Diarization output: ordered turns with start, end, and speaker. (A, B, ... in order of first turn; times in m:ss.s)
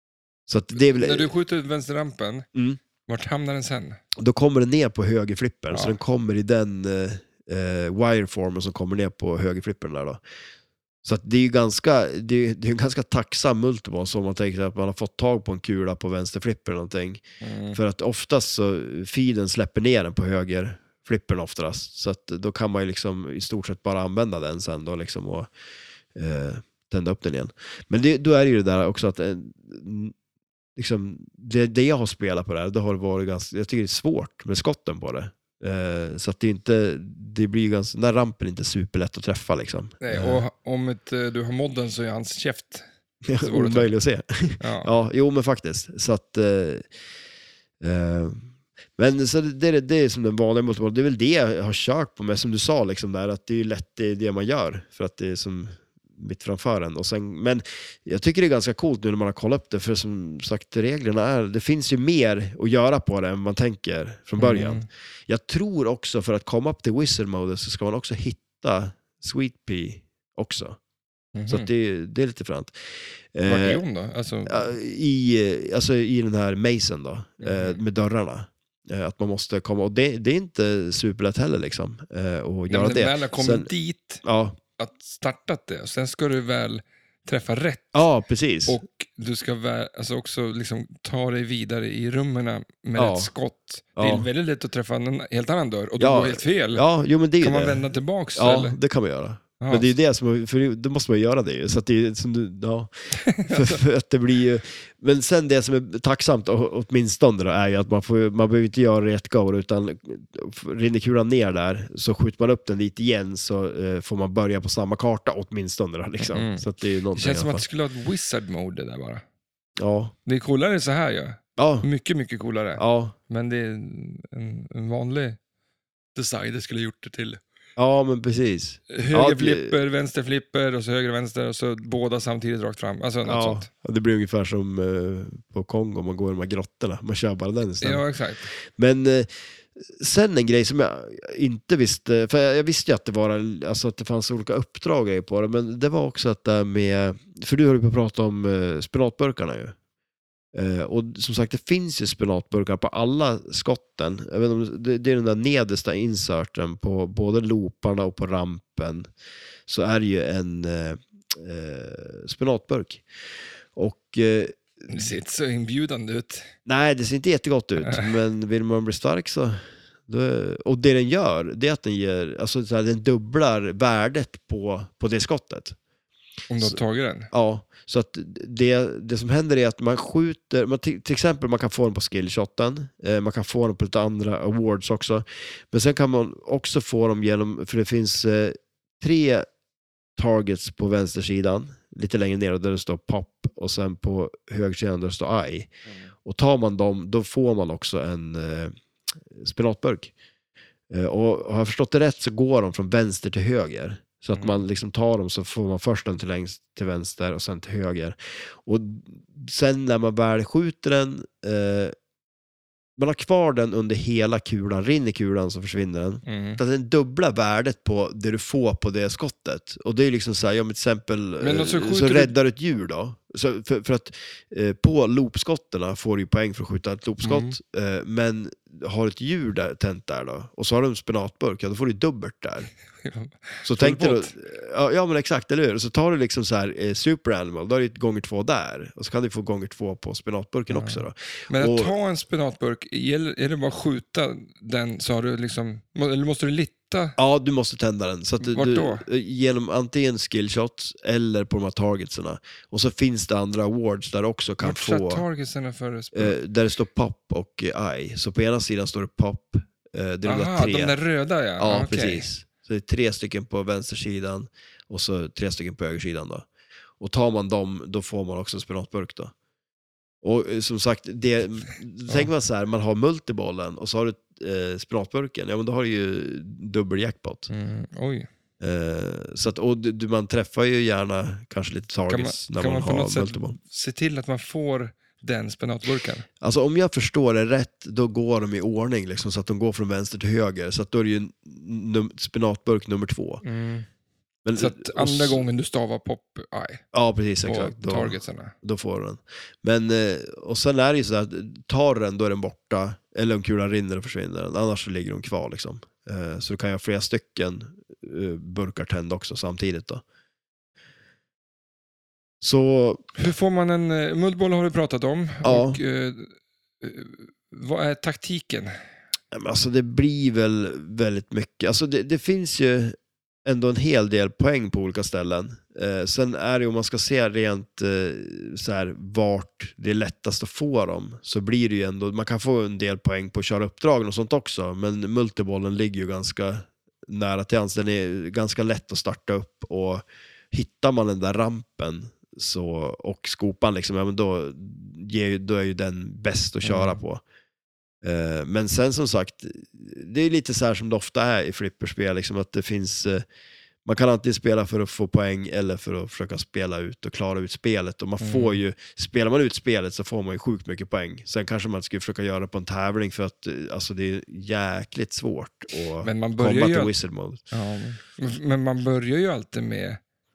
0:00.5-0:01.3 A
0:00.7-0:02.4 B
0:02.5-0:02.8 A
0:03.1-0:04.0 B
0:04.2-0:10.2 A
0:05.7-0:06.0 B
0:11.0-0:25.5 A
0:17.4-0:17.8 B
0:26.1-0:30.1 A
0:30.8-0:40.4 A
0:40.0-0:42.8 B
0:43.2-0:46.9 A
0:43.4-0:43.9 B
0:44.6-0:44.9 B
0:47.8-1:10.8 A
1:04.4-1:04.9 B
1:11.3-1:11.7 B
1:11.5-1:12.8 A
1:13.3-1:13.8 A
1:13.5-1:14.7 B
1:14.4-1:23.7 A
1:17.4-1:17.8 B
1:22.7-1:24.2 B
1:24.2-1:24.6 A
1:24.8-1:28.0 B
1:27.9-1:28.8 A
1:28.7-1:36.8 B
1:33.0-1:33.3 A
1:34.0-1:34.3 A
1:36.0-1:37.8 A
1:37.4-1:38.8 B
1:38.4-1:57.6 A
1:39.6-1:39.9 B
1:43.3-1:43.8 B
1:56.2-1:59.2 B
1:59.8-2:00.1 A
2:00.2-2:05.4 B
2:01.6-2:01.8 A
2:02.8-2:03.1 A
2:06.1-2:07.4 B
2:07.8-2:09.7 A
2:08.9-2:13.7 B
2:13.2-2:18.0 A
2:17.8-2:18.5 B
2:18.7-2:29.7 A
2:30.5-2:39.1 A
2:39.7-2:43.0 A
2:43.7-2:45.0 A
2:44.9-2:46.5 B
2:46.6-2:55.8 A
2:56.5-2:57.3 B
2:57.3-3:09.5 A
3:10.2-3:15.7 A
3:16.2-3:18.7 A
3:19.3-3:20.1 A
3:20.9-3:31.9 A
3:24.3-3:24.6 B
3:33.0-3:52.7 A
3:36.2-3:36.6 B
3:41.4-3:42.3 B
3:47.2-3:47.6 B
3:53.0-3:54.3 B
3:53.6-4:01.9 A
4:00.7-4:07.2 B
4:07.2-4:15.2 A
4:08.4-4:09.0 B
4:14.6-4:16.4 B
4:16.1-4:21.0 A
4:20.2-4:22.3 B
4:21.6-4:26.4 A
4:27.0-4:29.3 A
4:30.2-4:37.5 A
4:37.5-4:38.3 B
4:38.6-4:43.6 A
4:42.1-4:46.2 B
4:46.4-4:53.4 A
4:53.4-4:53.9 B
4:54.4-4:55.4 A
4:54.5-4:56.8 B
4:56.9-5:10.0 A
4:57.4-4:58.5 B
5:12.4-5:13.2 A
5:13.2-5:18.7 B
5:15.4-5:15.8 A
5:19.3-5:47.2 A
5:46.6-5:47.0 B
5:48.0-5:53.2 A
5:53.8-6:07.4 A
5:58.2-5:58.6 B
6:06.0-6:06.9 B
6:07.5-6:10.0 B